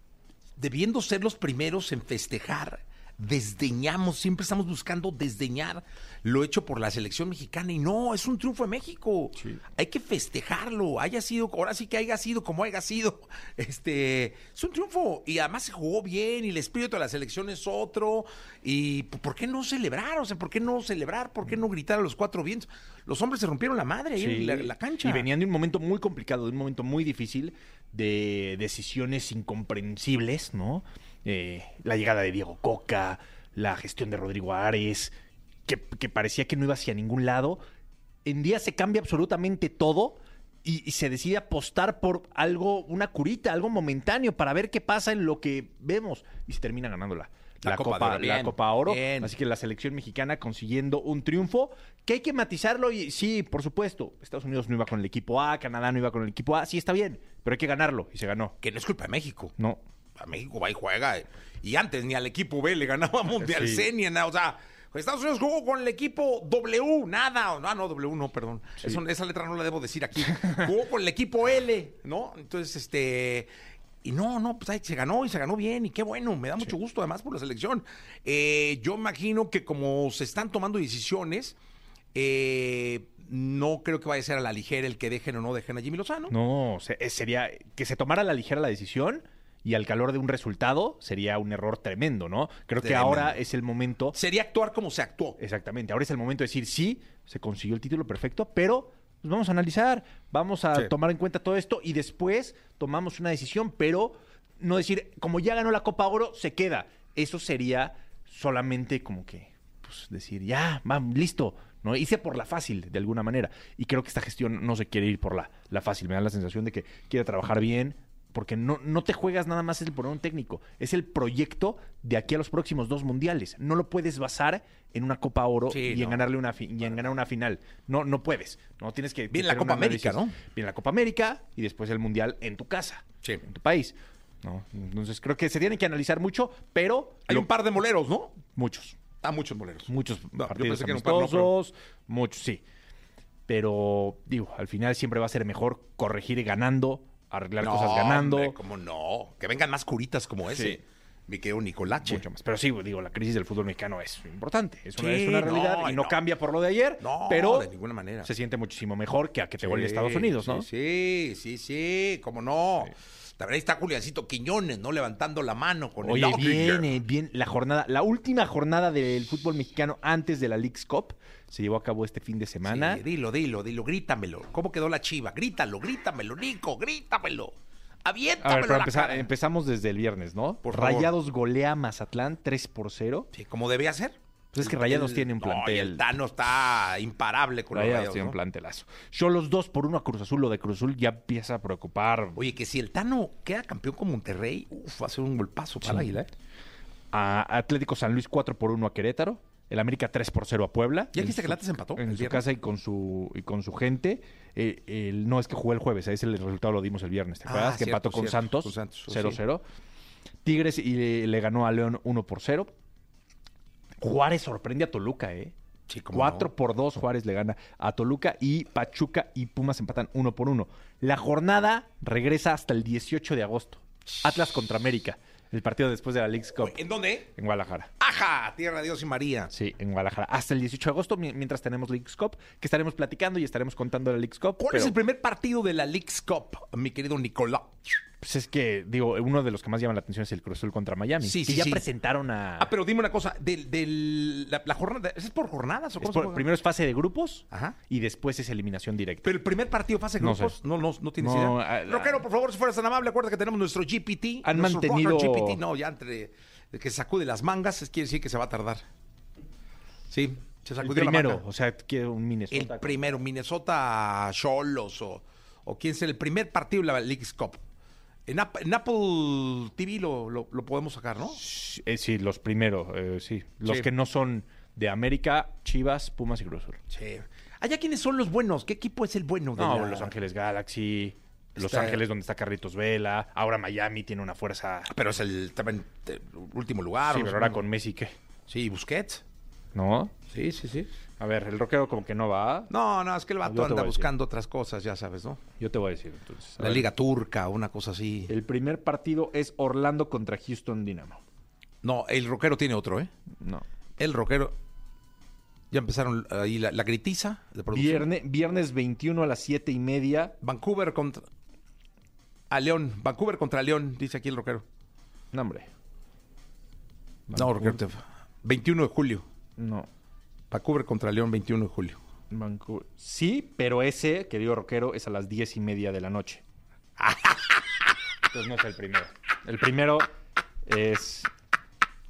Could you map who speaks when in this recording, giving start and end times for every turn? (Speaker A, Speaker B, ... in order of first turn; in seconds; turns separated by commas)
Speaker A: 0.6-25.3, Speaker B: 9.3-9.6, Speaker B: 24.1-35.1, Speaker B: 35.7-37.6, Speaker B: 38.2-58.5, Speaker A: 47.6-49.3, Speaker A: 58.6-59.5, Speaker B: 59.6-59.8, Speaker A: 60.2-73.5, Speaker B: 63.4-63.9, Speaker A: 74.0-81.6, Speaker A: 82.1-86.3, Speaker B: 86.3-94.2, Speaker A: 92.8-93.4, Speaker A: 94.1-95.4, Speaker B: 95.4-137.5, Speaker A: 125.7-126.3, Speaker A: 129.3-130.3, Speaker A: 137.3-138.4, Speaker B: 138.5-139.0, Speaker A: 139.2-141.5, Speaker B: 139.9-142.6, Speaker B: 143.5-148.6, Speaker A: 147.6-152.2, Speaker B: 150.4-150.8, Speaker B: 152.0-157.7, Speaker A: 155.0-156.2, Speaker A: 157.0-158.3, Speaker B: 158.2-160.7, Speaker A: 159.6-166.9, Speaker B: 166.0-173.0, Speaker A: 172.6-179.3, Speaker B: 178.4-183.3, Speaker A: 180.6-181.1, Speaker A: 183.3-188.4, Speaker B: 184.5-186.1, Speaker B: 187.7-192.4, Speaker A: 192.3-196.3, Speaker B: 195.8-196.1, Speaker B: 197.1-209.6, Speaker A: 201.1-202.4, Speaker A: 207.4-209.4, Speaker B: 210.4-212.7, Speaker B: 214.0-215.5, Speaker A: 215.9-216.5, Speaker B: 216.1-227.9, Speaker A: 226.6-227.3, Speaker A: 228.0-229.5, Speaker B: 229.5-234.9, Speaker A: 234.6-237.8, Speaker B: 238.2-242.7, Speaker A: 241.2-241.8, Speaker A: 242.6-246.4, Speaker B: 246.0-249.3, Speaker A: 247.5-247.8, Speaker A: 249.2-258.8, Speaker B: 250.2-250.5, Speaker B: 251.2-252.2, Speaker B: 254.4-255.6, Speaker A: 260.1-261.4, Speaker B: 260.8-263.2, Speaker A: 262.5-267.6, Speaker A: 268.3-271.4, Speaker B: 271.3-276.8, Speaker A: 273.6-273.9, Speaker A: 276.9-280.1, Speaker B: 279.6-284.9, Speaker A: 281.6-282.0, Speaker A: 284.9-287.6, Speaker B: 287.0-288.1, Speaker A: 288.5-289.2, Speaker B: 289.7-290.1, Speaker A: 290.3-290.9, Speaker B: 291.2-292.7, Speaker A: 292.7-295.4, Speaker B: 293.4-294.1, Speaker B: 295.6-296.9, Speaker A: 296.6-298.3, Speaker B: 298.3-301.2, Speaker A: 301.8-303.1, Speaker A: 304.0-304.5, Speaker A: 305.7-308.1, Speaker B: 307.7-310.4, Speaker A: 310.4-311.2, Speaker A: 312.5-314.6, Speaker B: 315.3-315.7, Speaker B: 317.3-317.8, Speaker A: 317.3-319.2, Speaker B: 319.6-319.9, Speaker A: 320.5-322.0, Speaker B: 322.3-326.4, Speaker A: 327.0-327.5, Speaker B: 328.3-330.1, Speaker B: 330.6-331.3